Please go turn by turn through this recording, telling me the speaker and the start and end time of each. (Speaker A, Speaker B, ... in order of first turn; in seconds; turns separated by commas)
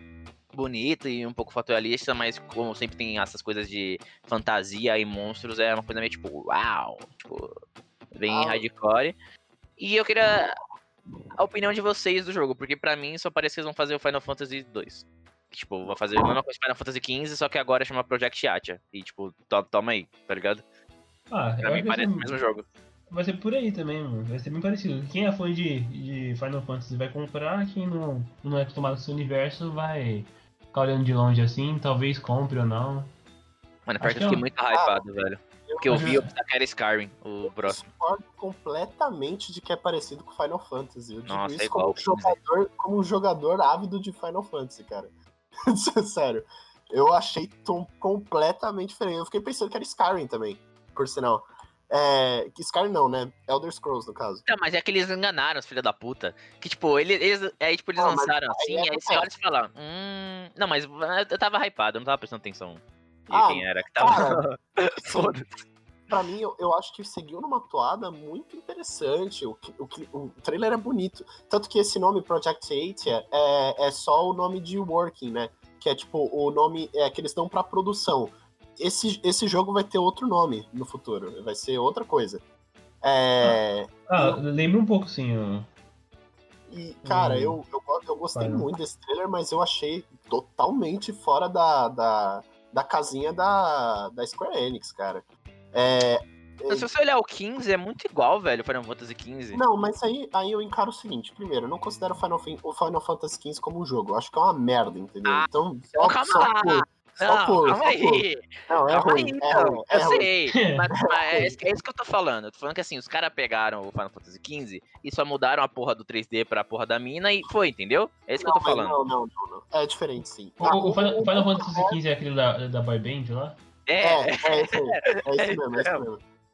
Speaker A: 0.5-7.5, Speaker A: 8.1-9.2, Speaker B: 8.3-8.6, Speaker A: 9.8-10.5, Speaker A: 11.4-20.6, Speaker C: 21.3-22.4, Speaker A: 21.6-22.6, Speaker C: 23.1-33.1, Speaker A: 33.9-37.9, Speaker C: 34.0-34.4, Speaker B: 34.7-35.0, Speaker B: 35.7-36.2, Speaker C: 35.9-36.3, Speaker B: 37.5-45.1, Speaker A: 41.3-42.4, Speaker B: 45.7-54.5, Speaker A: 54.5-65.6, Speaker B: 58.0-59.3, Speaker B: 63.3-64.4, Speaker B: 65.1-65.3, Speaker B: 66.1-82.4, Speaker B: 83.0-84.4, Speaker C: 83.4-85.7, Speaker B: 86.7-96.9, Speaker C: 87.0-87.6, Speaker C: 88.3-88.7, Speaker A: 96.7-99.7, Speaker B: 99.5-110.3, Speaker A: 105.3-119.0, Speaker C: 110.5-110.9, Speaker B: 111.0-111.6, Speaker B: 118.4-122.0, Speaker C: 120.6-123.6, Speaker A: 123.9-126.0, Speaker B: 124.0-126.2